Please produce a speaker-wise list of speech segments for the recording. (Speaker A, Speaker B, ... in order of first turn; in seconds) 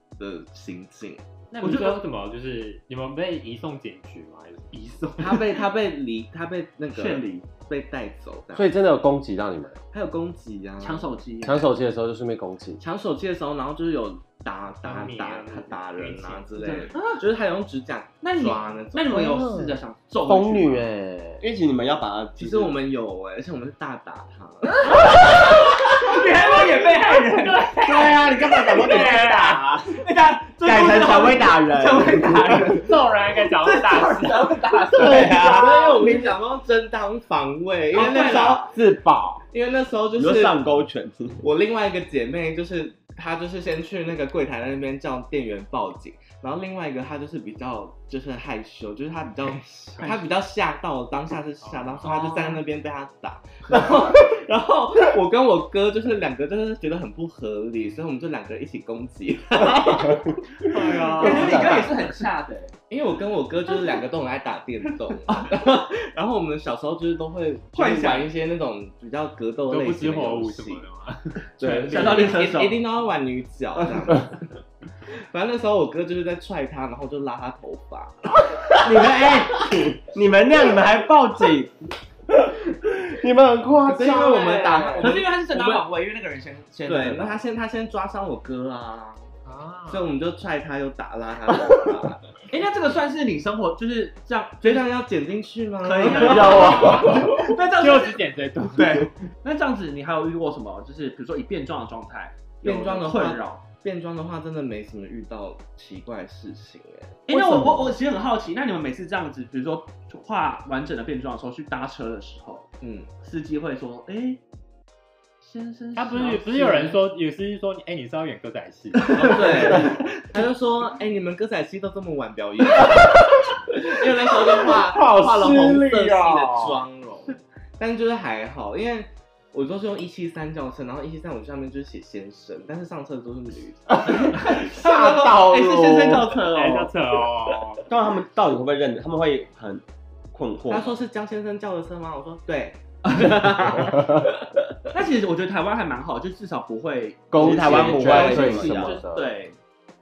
Speaker A: 0.2-1.2, 5.2-8.7, 9.9-11.1, 12.8-19.4, 22.4-25.2, 35.0-38.7, 39.5-40.6, 41.4-61.9, 62.9-70.9, 71.6-74.4, 75.2-78.4, 83.8-85.8, 86.9-89.2, 89.9-92.3, 94.6-96.9, 102.6-107.8, 112.8-113.1, 119.1-123.1, 123.7-134.3, 140.7-144.0
Speaker B: 1.5-5.0, 14.8-16.6, 27.3-29.6, 32.6-35.1, 51.6-52.3, 60.6-61.8, 69.7-72.4, 89.5-90.1, 96.3-99.1, 116.0-119.9, 136.5-137.9
Speaker C: 1.6-2.0, 4.7-5.6, 6.9-7.5, 10.8-11.7, 16.6-17.2, 18.2-20.9, 24.9-28.1, 28.7-35.3, 37.9-38.7, 52.0-52.5, 61.1-62.7, 65.3-65.6, 67.7-68.3, 71.8-72.8, 84.3-87.4, 92.5-94.9, 95.8-98.2, 98.7-103.6, 107.3-112.7, 113.2-114.4, 115.4-117.0, 134.1-136.9, 143.0-144.1, 144.9-149.6
Speaker D: 8.6-9.8, 11.4-12.8, 19.1-21.4, 35.0-35.5, 38.7-39.4, 61.2-61.9, 83.2-85.1, 96.1-97.3, 124.6-126.8, 133.9-136.4, 147.3-149.3
Speaker E: 21.4-22.8, 27.8-30.0, 30.6-32.5, 35.0-36.1, 40.1-41.4, 78.8-81.7, 137.9-141.0, 147.3-149.0